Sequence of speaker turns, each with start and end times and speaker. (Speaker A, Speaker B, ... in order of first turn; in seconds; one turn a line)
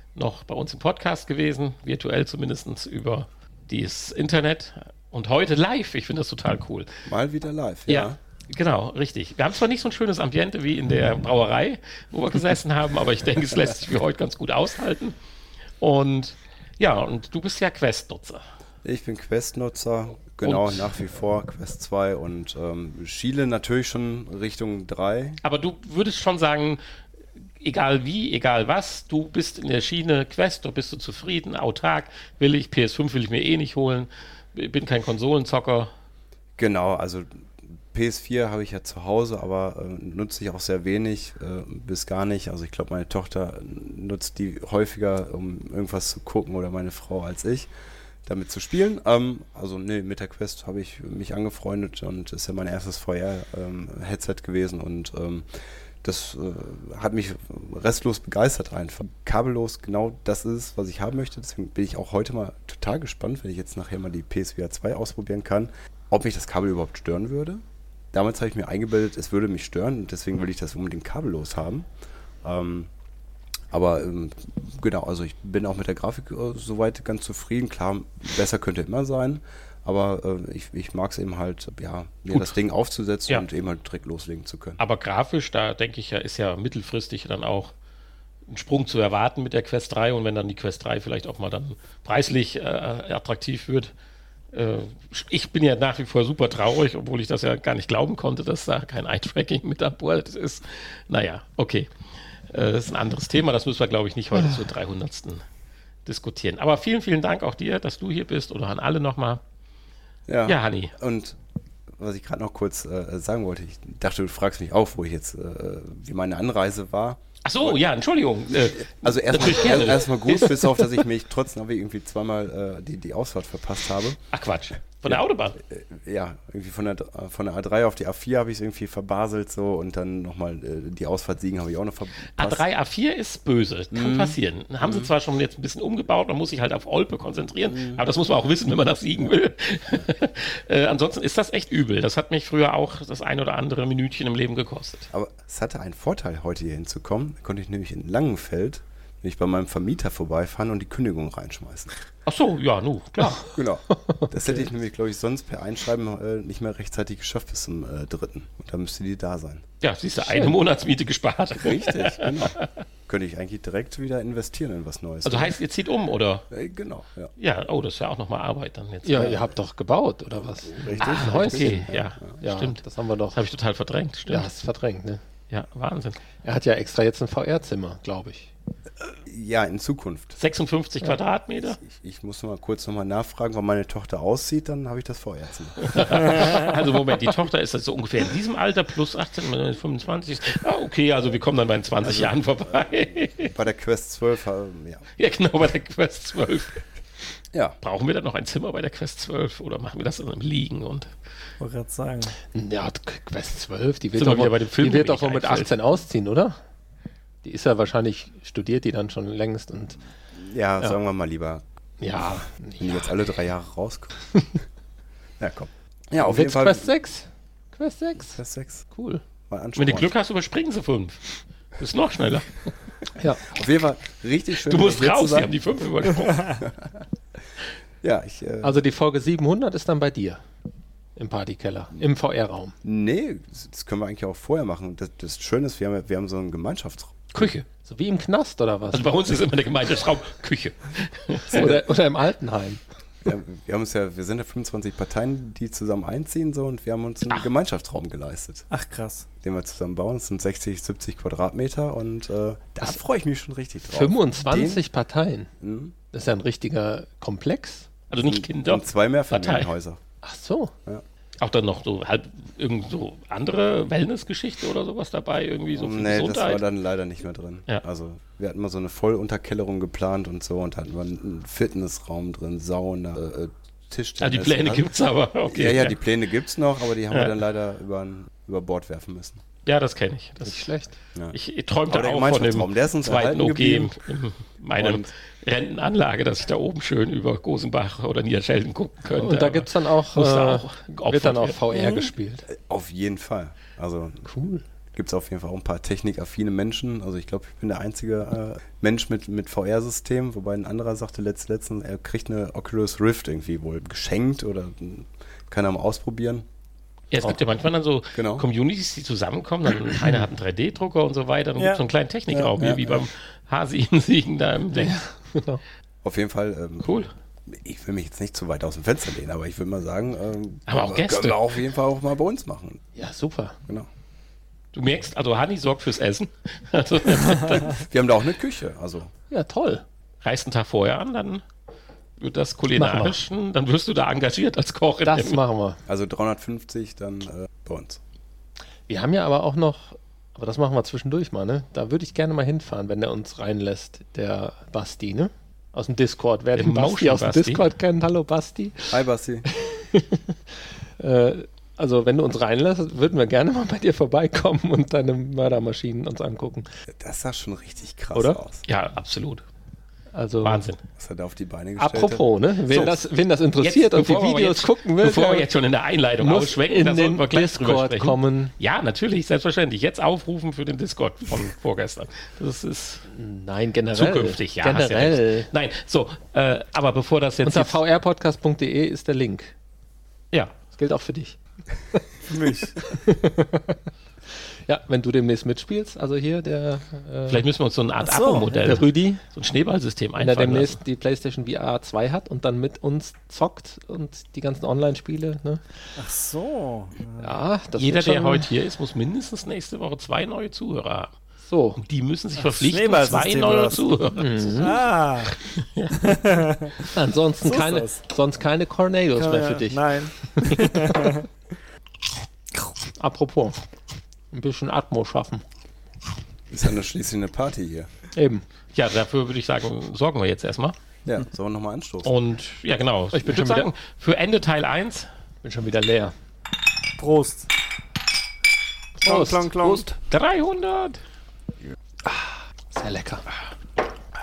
Speaker A: 0.1-6.9
Speaker B: 7.0-8.2
Speaker A: 7.9-15.2
Speaker A: 15.8-18.4
Speaker B: 18.8-25.4
Speaker A: 20.4-20.8
Speaker A: 25.4-26.8
Speaker A: 27.6-35.9
Speaker B: 36.6-47.7
Speaker B: 48.2-55.5
Speaker B: 56.0-71.9
Speaker B: 72.4-72.9
Speaker B: 73.7-84.8
Speaker A: 84.8-87.7
Speaker A: 88.5-93.9
Speaker A: 94.5-101.9
Speaker A: 102.5-105.4
Speaker A: 106.0-109.4
Speaker B: 110.3-111.4
Speaker A: 110.5-110.9
Speaker B: 112.0-117.8
Speaker A: 117.4-120.7
Speaker B: 118.8-124.2
Speaker A: 124.3-125.6
Speaker B: 125.0-132.6
Speaker A: 132.4-145.1
Speaker B: 133.9-135.1
Speaker B: 137.7-138.0
Speaker B: 145.1-151.9
Speaker A: 152.2-153.5
Speaker B: 153.5-159.6
Speaker C: 153.9-154.3
Speaker A: 159.8-162.7
Speaker B: 161.6-165.6
Speaker A: 165.2-166.5
Speaker B: 166.5-167.3
Speaker A: 167.4-169.4
Speaker C: 169.0-173.4
Speaker B: 170.6-172.2
Speaker A: 171.0-174.5
Speaker C: 174.3-175.2
Speaker A: 175.5-176.2
Speaker C: 176.4-178.5
Speaker B: 179.2-180.3
Speaker A: 180.4-181.8
Speaker B: 181.8-186.5
Speaker A: 185.8-193.5
Speaker B: 192.0-192.3
Speaker B: 193.5-195.0
Speaker A: 195.2-196.8
Speaker B: 197.5-197.8
Speaker A: 197.8-201.1
Speaker D: 201.6-202.3
Speaker C: 202.5-206.6
Speaker A: 204.2-205.7
Speaker C: 207.4-210.0
Speaker B: 210.3-211.6
Speaker C: 212.0-213.1
Speaker B: 212.2-214.1
Speaker C: 214.3-214.6
Speaker B: 215.4-216.9
Speaker C: 216.2-218.4
Speaker B: 218.3-218.8
Speaker C: 218.9-219.2
Speaker B: 219.5-220.1
Speaker A: 219.8-221.2
Speaker A: 221.8-222.6
Speaker B: 223.4-225.6
Speaker A: 224.6-226.6
Speaker B: 226.6-226.9
Speaker B: 228.0-228.8
Speaker C: 228.6-230.4
Speaker C: 231.2-232.7
Speaker B: 232.8-237.5
Speaker A: 237.3-237.6
Speaker C: 237.8-239.1
Speaker A: 238.9-241.7
Speaker B: 241.5-241.8
Speaker C: 241.5-242.8
Speaker B: 243.2-248.7
Speaker D: 248.7-249.2
Speaker B: 249.4-254.8
Speaker C: 253.9-255.5
Speaker B: 255.6-255.9
Speaker C: 256.1-257.9
Speaker A: 258.1-259.7
Speaker B: 258.2-260.0
Speaker C: 260.2-260.7
Speaker A: 261.4-266.6
Speaker B: 265.7-274.9
Speaker A: 274.2-276.0
Speaker B: 275.4-279.4
Speaker A: 279.6-280.7
Speaker C: 280.4-280.9
Speaker A: 281.3-291.6
Speaker B: 281.9-283.9
Speaker B: 284.8-285.1
Speaker C: 289.1-292.5
Speaker B: 292.5-294.2
Speaker C: 294.2-294.6
Speaker B: 294.9-306.4
Speaker A: 307.1-315.0
Speaker B: 308.1-308.4
Speaker B: 312.3-313.0
Speaker C: 314.7-315.6
Speaker B: 316.0-322.8
Speaker A: 316.8-317.1
Speaker A: 320.7-321.5
Speaker C: 322.9-323.6
Speaker A: 324.7-327.8
Speaker B: 327.8-329.1
Speaker C: 329.3-329.8
Speaker A: 330.2-331.4
Speaker A: 332.2-335.4
Speaker C: 332.7-333.2
Speaker C: 335.0-335.8
Speaker B: 335.9-338.0
Speaker C: 338.9-348.9
Speaker A: 346.5-347.6
Speaker B: 348.9-349.4
Speaker C: 349.5-350.4
Speaker C: 351.0-356.7
Speaker B: 356.9-358.6
Speaker C: 358.1-358.4
Speaker A: 358.7-359.4
Speaker C: 360.1-360.6
Speaker A: 360.4-360.8
Speaker B: 361.0-362.2
Speaker C: 361.8-365.5
Speaker A: 362.7-363.0
Speaker A: 363.6-373.1
Speaker C: 366.2-368.5
Speaker C: 373.1-375.5
Speaker A: 373.9-377.8
Speaker C: 377.4-379.5
Speaker C: 380.8-381.4
Speaker C: 381.9-383.8
Speaker D: 382.3-382.7
Speaker C: 384.7-387.4
Speaker A: 387.3-390.8
Speaker D: 388.0-388.7
Speaker C: 388.6-389.2
Speaker C: 390.2-395.6
Speaker D: 396.0-397.3
Speaker C: 397.2-398.5
Speaker A: 397.8-401.1
Speaker C: 401.5-401.8
Speaker A: 401.8-406.2
Speaker D: 402.4-405.4
Speaker C: 404.1-404.7
Speaker D: 405.9-408.0
Speaker C: 406.9-409.8
Speaker D: 409.1-411.3
Speaker C: 410.4-411.0
Speaker C: 412.9-413.6
Speaker C: 414.3-415.4
Speaker B: 416.5-417.9
Speaker C: 418.1-418.4
Speaker A: 418.7-420.8
Speaker B: 421.1-422.1
Speaker A: 422.0-425.1
Speaker C: 423.1-423.7
Speaker C: 425.4-426.1
Speaker D: 427.0-427.5
Speaker C: 429.0-429.9
Speaker D: 429.0-429.9
Speaker A: 430.1-431.0
Speaker C: 432.1-433.2